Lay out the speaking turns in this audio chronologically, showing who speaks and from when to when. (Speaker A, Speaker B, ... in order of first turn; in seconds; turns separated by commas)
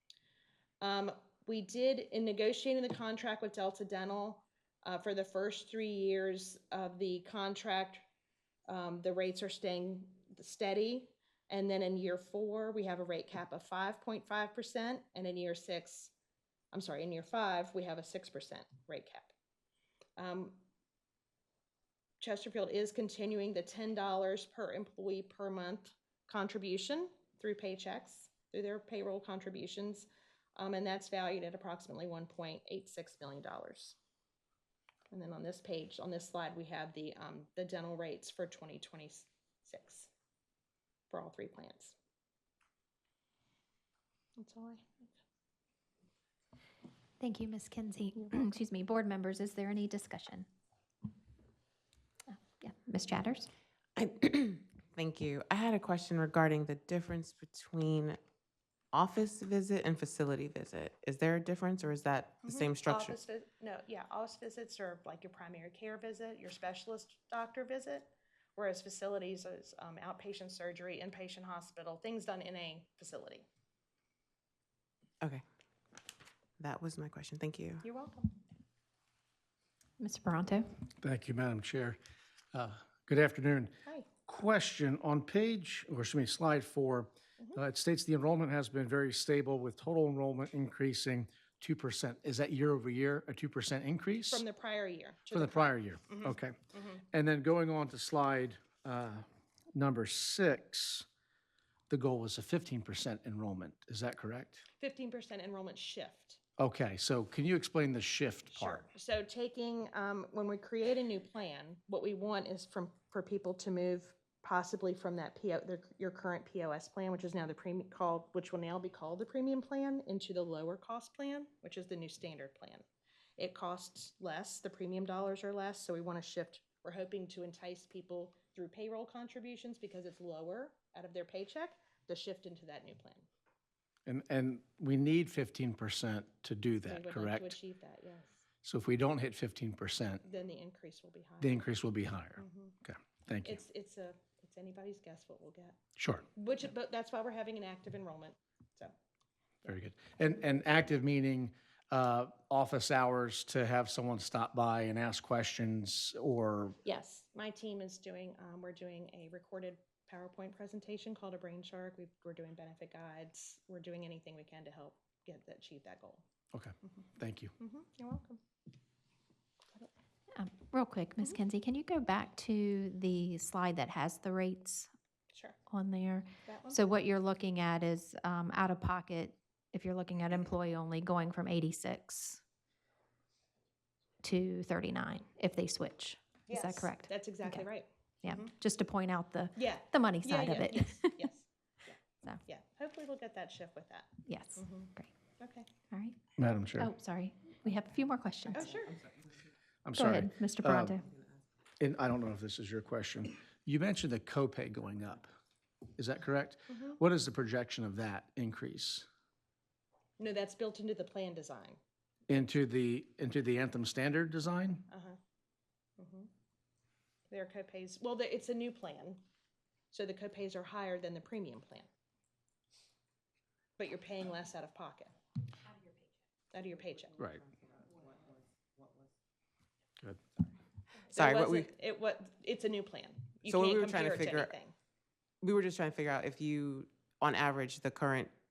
Speaker A: 0.8-8.0, Speaker A: 8.7-16.1, Speaker A: 16.7-19.3, Speaker A: 20.2-20.6, Speaker A: 22.2-34.0, Speaker A: 35.1-40.1, Speaker A: 41.1-41.9, Speaker A: 44.4-45.1, Speaker B: 47.2-50.5, Speaker B: 52.3-53.5, Speaker C: 54.0-58.2, Speaker C: 58.9-63.2, Speaker A: 62.4-73.5, Speaker C: 76.6-77.8, Speaker A: 77.8-78.4, Speaker B: 80.0-80.7, Speaker D: 81.0-82.0, Speaker D: 82.5-94.4, Speaker A: 94.3-97.0, Speaker D: 95.3-96.5, Speaker D: 97.1-101.0, Speaker D: 101.9-104.6, Speaker A: 104.8-106.4, Speaker D: 106.6-108.8, Speaker A: 108.5-122.8, Speaker A: 123.4-133.3, Speaker D: 134.1-137.6, Speaker A: 136.8-138.4, Speaker D: 138.6-140.2, Speaker A: 140.2-141.6, Speaker D: 141.4-143.6, Speaker A: 142.4-142.8, Speaker A: 143.4-145.8, Speaker D: 146.0-146.2, Speaker A: 146.3-148.9, Speaker D: 149.7-156.8, Speaker A: 156.8-166.2, Speaker D: 166.5-167.5, Speaker A: 167.6-168.4, Speaker B: 170.3-174.9, Speaker A: 175.3-175.6, Speaker B: 175.7-182.4, Speaker A: 176.4-176.8, Speaker B: 184.2-187.7, Speaker A: 186.5-188.5, Speaker B: 188.2-191.3, Speaker A: 189.6-195.7, Speaker B: 194.2-195.1, Speaker B: 195.9-196.2, Speaker D: 196.4-196.9, Speaker B: 196.8-198.7, Speaker A: 198.5-199.0, Speaker D: 199.8-201.0, Speaker B: 199.9-201.0, Speaker D: 201.8-205.3, Speaker D: 205.9-209.1, Speaker A: 210.2-211.8, Speaker D: 212.3-214.9, Speaker A: 214.9-215.2, Speaker A: 216.0-216.3, Speaker A: 217.3-219.2, Speaker A: 219.9-221.9, Speaker A: 223.8-225.1, Speaker A: 226.5-227.2, Speaker D: 227.2-227.4, Speaker A: 231.1-234.7, Speaker C: 231.1-231.7, Speaker C: 233.4-234.5, Speaker C: 235.4-238.3